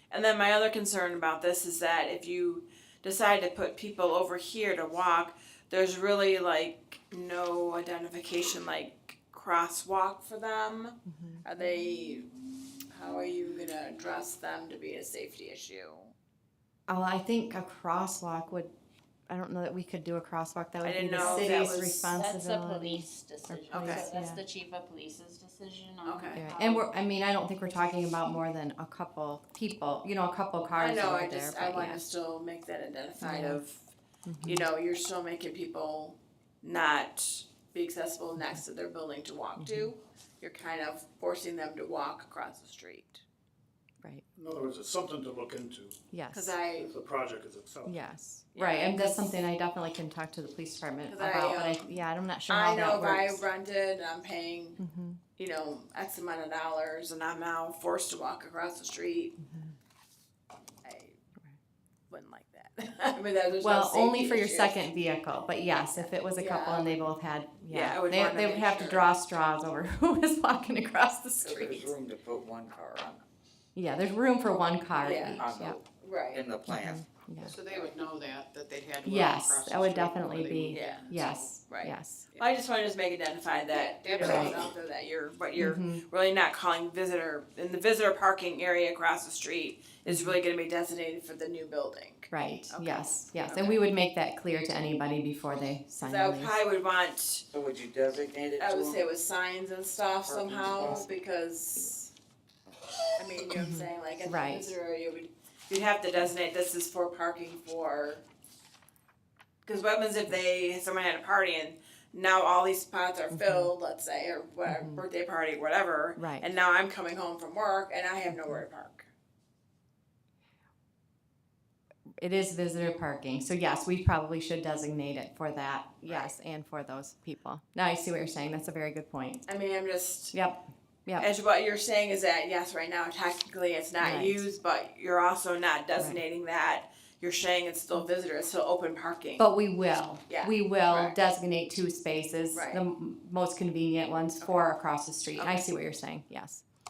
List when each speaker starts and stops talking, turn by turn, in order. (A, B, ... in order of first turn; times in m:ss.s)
0:00.1-0:12.3 A
0:11.1-0:11.4 B
0:12.9-0:16.1 A
0:16.9-0:18.7 B
0:19.3-0:24.4 B
0:20.8-0:22.1 A
0:22.1-0:26.7 C
0:23.7-0:24.1 A
0:26.0-0:26.4 A
0:26.4-0:32.0 B
0:30.8-0:33.8 A
0:33.2-0:33.6 B
0:34.3-0:34.7 B
0:34.4-0:43.2 A
0:39.6-0:39.9 B
0:44.4-0:46.0 D
0:46.1-0:46.6 B
0:46.3-0:46.9 A
0:46.7-0:48.0 D
0:47.9-0:53.4 B
0:48.6-0:49.3 A
0:51.1-0:51.9 A
0:52.5-0:54.8 A
0:54.8-0:55.2 B
0:55.4-0:59.4 A
0:59.4-0:59.8 B
1:00.8-1:01.2 A
1:02.1-1:04.9 A
1:03.6-1:11.9 B
1:05.9-1:06.9 A
1:07.7-1:09.1 A
1:11.4-1:13.2 E
1:13.8-1:15.8 B
1:15.0-1:15.5 A
1:15.4-1:17.0 E
1:16.0-1:16.4 A
1:16.7-1:17.5 B
1:17.4-1:21.6 F
1:19.0-1:22.3 B
1:20.7-1:21.1 A
1:21.7-1:33.8 A
1:23.7-1:24.7 F
1:24.2-1:24.6 B
1:25.6-1:26.0 B
1:30.1-1:30.4 B
1:32.3-1:36.5 B
1:36.0-1:37.4 A
1:37.5-1:39.0 E
1:38.6-1:42.1 A
1:40.3-1:41.0 E
1:43.2-1:48.2 A
1:43.6-1:44.7 B
1:49.6-1:59.1 A
1:53.3-1:53.7 B
1:54.7-1:55.0 B
1:56.2-1:56.5 B
1:58.3-1:58.6 B
2:02.2-2:09.4 B
2:06.1-2:06.3 A
2:09.5-2:10.4 A
2:10.3-2:11.3 B
2:11.2-2:19.5 A
2:14.0-2:14.5 B
2:19.4-2:26.6 B
2:20.3-2:21.2 A
2:22.5-2:22.8 A
2:24.4-2:24.8 A
2:25.3-2:25.7 A